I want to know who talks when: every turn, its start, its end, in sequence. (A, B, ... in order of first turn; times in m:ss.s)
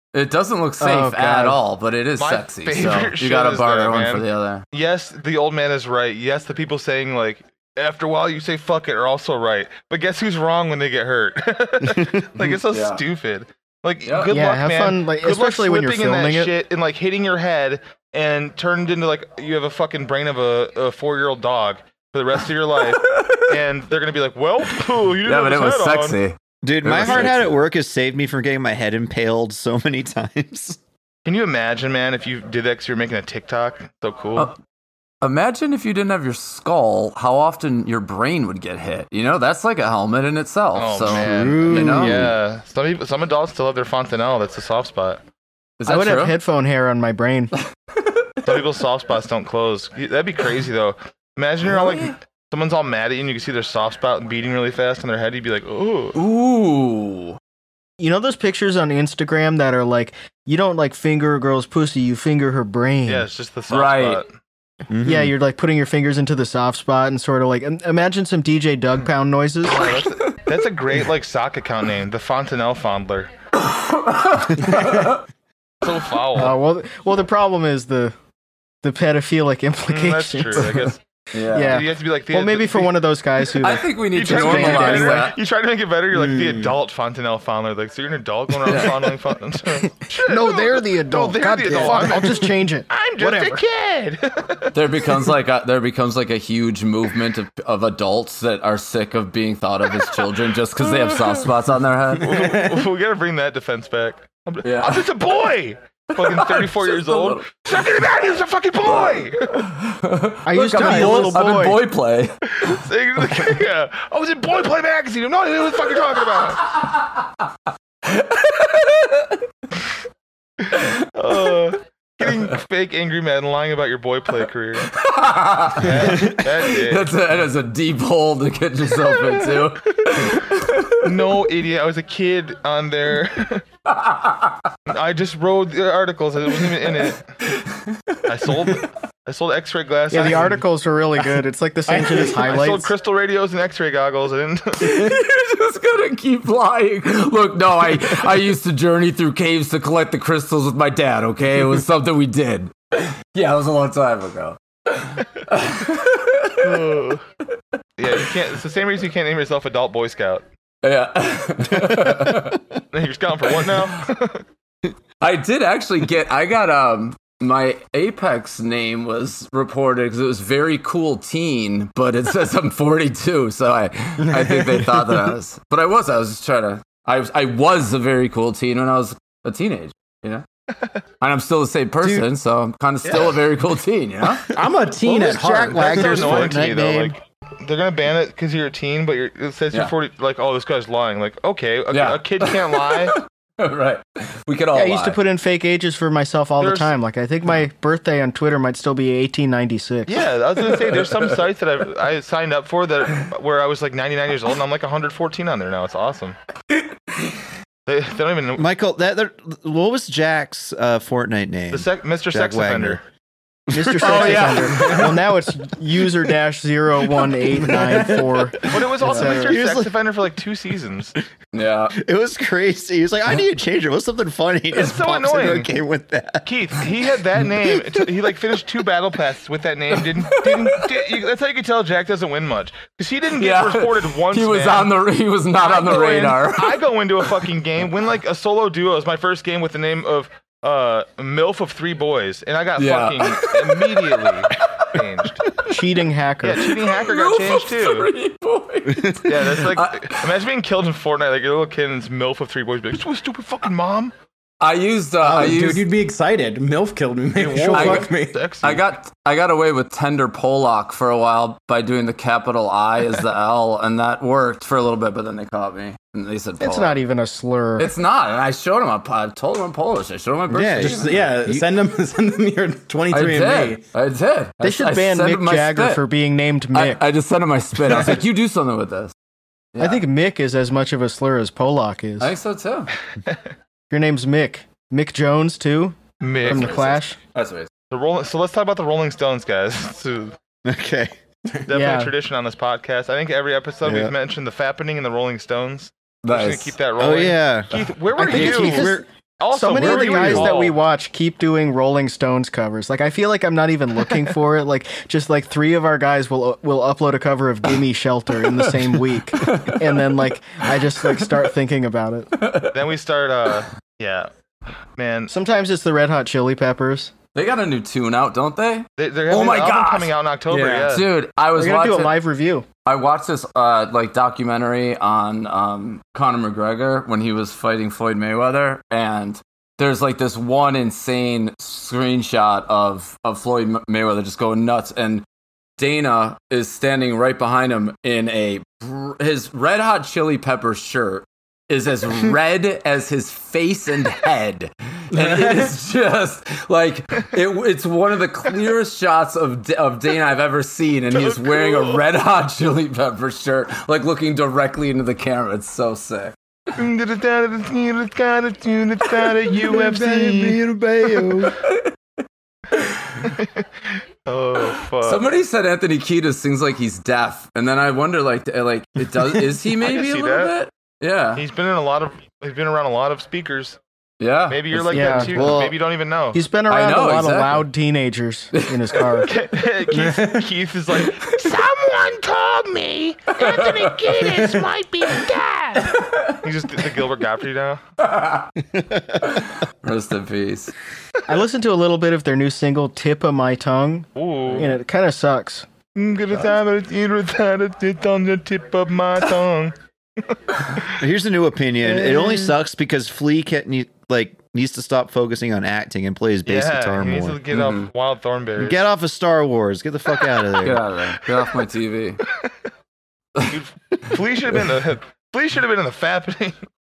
0:00.1-0:04.6 A
0:00.8-0:01.6 B
0:02.2-0:26.2 C
0:12.7-0:13.0 A
0:14.0-0:14.3 A
0:14.3-0:16.5 B
0:22.9-0:23.5 A
0:24.8-0:27.6 A
0:26.6-0:30.8 D
0:27.0-0:27.3 C
0:31.2-0:34.5 C
0:35.2-0:42.3 A
0:40.7-0:45.2 C
0:41.0-0:42.4 D
0:45.8-0:46.4 A
0:45.9-0:47.5 B
0:48.0-0:48.4 A
0:48.4-0:56.2 C
0:51.6-0:52.1 A
0:56.2-0:57.4 A
0:58.0-1:03.3 B
1:03.1-1:04.3 C
1:03.7-1:04.2 A
1:04.9-1:05.3 D
1:05.0-1:10.0 B
1:09.6-1:13.3 C
1:09.8-1:10.4 A
1:13.6-1:15.2 A
1:14.8-1:15.1 E
1:15.8-1:16.6 C
1:16.4-1:18.1 B
1:18.8-1:20.7 B
1:19.9-1:21.0 C
1:21.3-1:21.8 A
1:21.5-1:25.3 B
1:21.6-1:23.0 C
1:23.6-1:25.4 A
1:24.1-1:34.8 C
1:26.1-1:26.8 E
1:28.7-1:29.0 A
1:30.1-1:33.6 B
1:31.7-1:32.2 A
1:34.7-1:42.3 A
1:40.8-1:41.5 C
1:42.2-1:49.7 C
1:42.2-1:42.8 E
1:44.6-1:45.1 A
1:46.1-1:47.8 A
1:48.8-1:52.8 A
1:50.4-1:51.8 B
1:50.8-1:51.4 E
1:52.6-1:56.7 C
1:56.7-1:57.3 A
1:58.0-1:59.4 A
2:00.8-2:04.9 C
2:00.9-2:01.5 A
2:04.9-2:11.2 A
2:05.7-2:07.1 C
2:09.2-2:09.6 C
2:11.0-2:13.6 C
2:13.9-2:14.7 A
2:14.9-2:17.2 C
2:16.6-2:18.7 A
2:18.2-2:20.6 C
2:20.1-2:22.9 B
2:22.0-2:25.1 C
2:24.8-2:37.1 A
2:36.6-2:37.2 C
2:38.0-2:40.4 C
2:40.8-2:42.6 A
2:41.9-2:42.3 D
2:42.9-2:44.4 C
2:43.6-2:44.0 A
2:45.2-3:00.4 A
2:54.3-2:55.2 E
3:01.2-3:04.5 A
3:02.0-3:02.3 D
3:04.5-3:06.6 E
3:05.0-3:07.2 D
3:05.7-3:13.2 C
3:11.9-3:15.2 A
3:14.7-3:20.2 B
3:16.6-3:16.9 C
3:20.1-3:26.4 C
3:20.7-3:21.3 A
3:27.9-3:28.7 C
3:28.6-3:33.0 D
3:31.7-3:33.0 C
3:33.7-3:34.6 D
3:33.7-3:39.6 B
3:34.0-3:35.1 A
3:34.2-3:34.5 C
3:34.2-3:35.1 E
3:37.5-3:38.6 E
3:38.6-3:41.1 C
3:39.3-3:39.9 D
3:41.5-3:42.0 A
3:41.9-3:46.8 D
3:44.7-3:45.7 C
3:46.4-3:54.9 C
3:50.0-3:51.2 A
3:53.4-3:57.4 A
3:55.6-4:05.4 C
4:02.8-4:04.9 A
4:05.6-4:06.7 B
4:06.4-4:08.1 C
4:06.6-4:10.4 A
4:09.2-4:14.1 C
4:14.6-4:15.9 A
4:15.2-4:18.4 E
4:17.7-4:18.8 C
4:17.7-4:27.0 A
4:26.6-4:27.9 B
4:27.8-4:31.4 A
4:30.5-4:31.6 D
4:30.7-4:33.8 E
4:33.1-4:36.0 A
4:34.6-4:37.0 B
4:36.7-4:39.1 A
4:39.7-4:40.0 A
4:39.8-4:42.3 B
4:42.2-4:42.9 A
4:43.9-4:47.2 B
4:46.2-4:46.9 C
4:46.4-4:47.7 A
4:47.9-4:50.4 C
4:50.6-4:51.1 D
4:51.7-5:00.8 C
4:51.7-4:52.1 B
4:53.8-4:54.1 D
4:56.2-4:56.8 A
4:57.0-4:59.0 D
4:58.2-5:12.3 B
4:59.7-5:00.5 D
5:08.5-5:10.1 A
5:11.0-5:11.3 A
5:12.4-5:12.8 A
5:12.7-5:14.3 C
5:15.0-5:15.3 C
5:15.3-5:17.1 B
5:17.3-5:20.2 A
5:19.0-5:21.1 C
5:20.5-5:21.0 E
5:20.9-5:22.1 A
5:21.6-5:22.7 B
5:22.8-5:35.2 A
5:35.8-5:56.4 A
5:45.1-5:45.7 E
5:51.1-5:52.0 C
5:56.8-6:00.6 C
5:59.5-6:01.6 D
6:01.2-6:01.9 A
6:02.7-6:03.3 A
6:03.3-6:03.6 C
6:04.3-6:05.2 C
6:04.6-6:11.4 A
6:09.8-6:10.6 C
6:11.3-6:13.8 C
6:14.2-6:15.5 A
6:14.5-6:16.4 C
6:14.9-6:15.3 B
6:15.3-6:15.8 D
6:16.3-6:19.3 B
6:16.7-6:17.7 A
6:18.6-6:19.3 A
6:19.2-6:27.8 C
6:19.9-6:20.5 E
6:21.1-6:21.3 A
6:23.4-6:24.3 A
6:24.4-6:24.6 E
6:28.0-6:28.5 A
6:28.8-6:29.3 D
6:29.2-6:30.7 A
6:31.3-6:35.7 B
6:34.1-6:34.7 C
6:36.0-6:41.0 C
6:41.0-6:47.4 D
6:46.4-6:48.8 C
6:47.5-6:47.9 A
6:48.6-6:50.8 D
6:50.6-6:52.2 A
6:53.5-6:56.6 C